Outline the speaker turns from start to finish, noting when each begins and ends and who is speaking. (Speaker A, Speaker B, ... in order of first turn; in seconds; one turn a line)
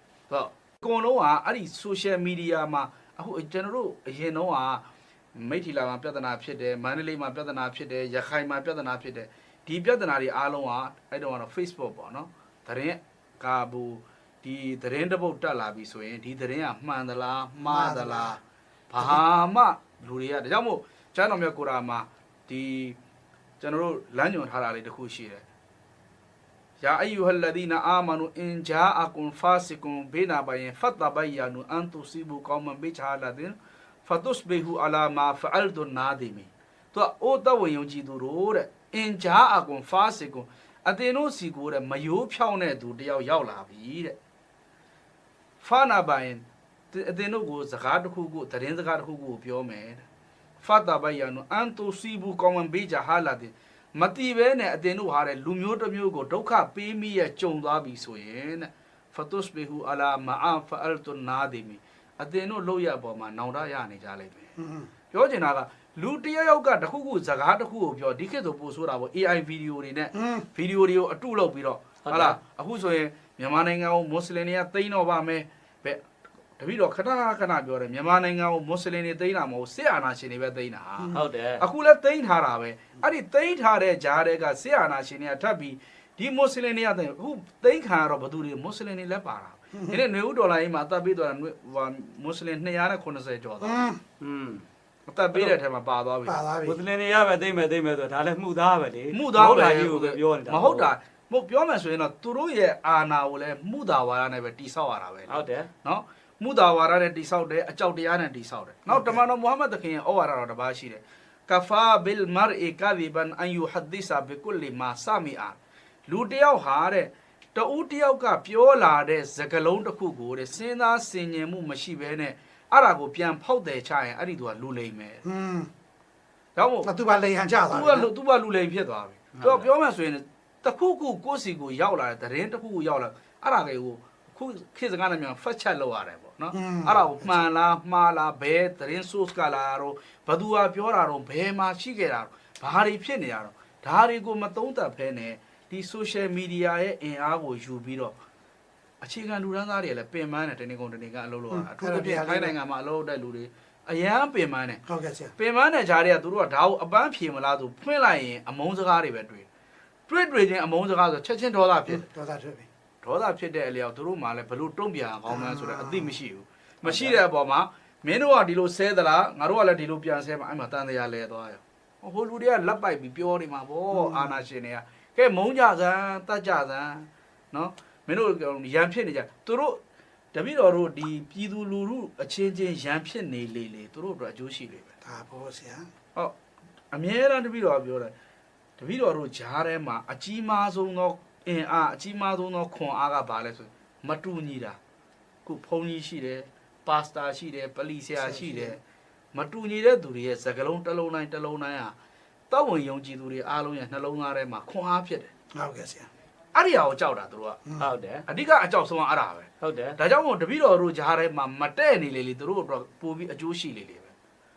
Speaker A: 0.3-23.0
Speaker B: 17.7-18.4
Speaker A: 23.6-25.5
Speaker A: 26.8-44.2
Speaker A: 45.6-50.0
Speaker A: 50.6-64.5
Speaker B: 64.6-64.9
Speaker A: 65.1-76.0
Speaker B: 70.2-70.5
Speaker C: 72.0-72.4
Speaker A: 76.6-93.8
Speaker C: 81.1-81.6
Speaker B: 93.6-94.0
Speaker C: 94.2-94.7
Speaker A: 95.1-96.4
Speaker B: 96.3-96.8
Speaker C: 96.6-100.9
Speaker A: 99.1-125.2
Speaker C: 105.3-105.7
Speaker B: 108.9-109.2
Speaker B: 125.2-125.7
Speaker A: 126.6-126.9
Speaker B: 126.8-128.1
Speaker A: 127.7-148.2
Speaker C: 129.4-129.7
Speaker B: 136.5-137.5
Speaker A: 149.0-154.8
Speaker B: 151.5-152.6
Speaker B: 154.9-155.3
Speaker A: 155.4-159.5
Speaker A: 160.1-162.1
Speaker B: 161.9-162.7
Speaker A: 163.0-179.8
Speaker B: 165.3-166.2
Speaker C: 166.8-167.2
Speaker B: 173.9-174.4
Speaker A: 180.3-184.9
Speaker B: 185.1-185.9
Speaker A: 186.9-188.1
Speaker A: 188.8-194.8
Speaker A: 195.5-198.8
Speaker B: 198.2-198.8
Speaker A: 199.3-201.9
Speaker A: 202.5-205.3
Speaker B: 205.6-206.1
Speaker A: 206.6-207.6
Speaker C: 207.8-208.2
Speaker A: 208.3-214.1
Speaker C: 209.6-210.0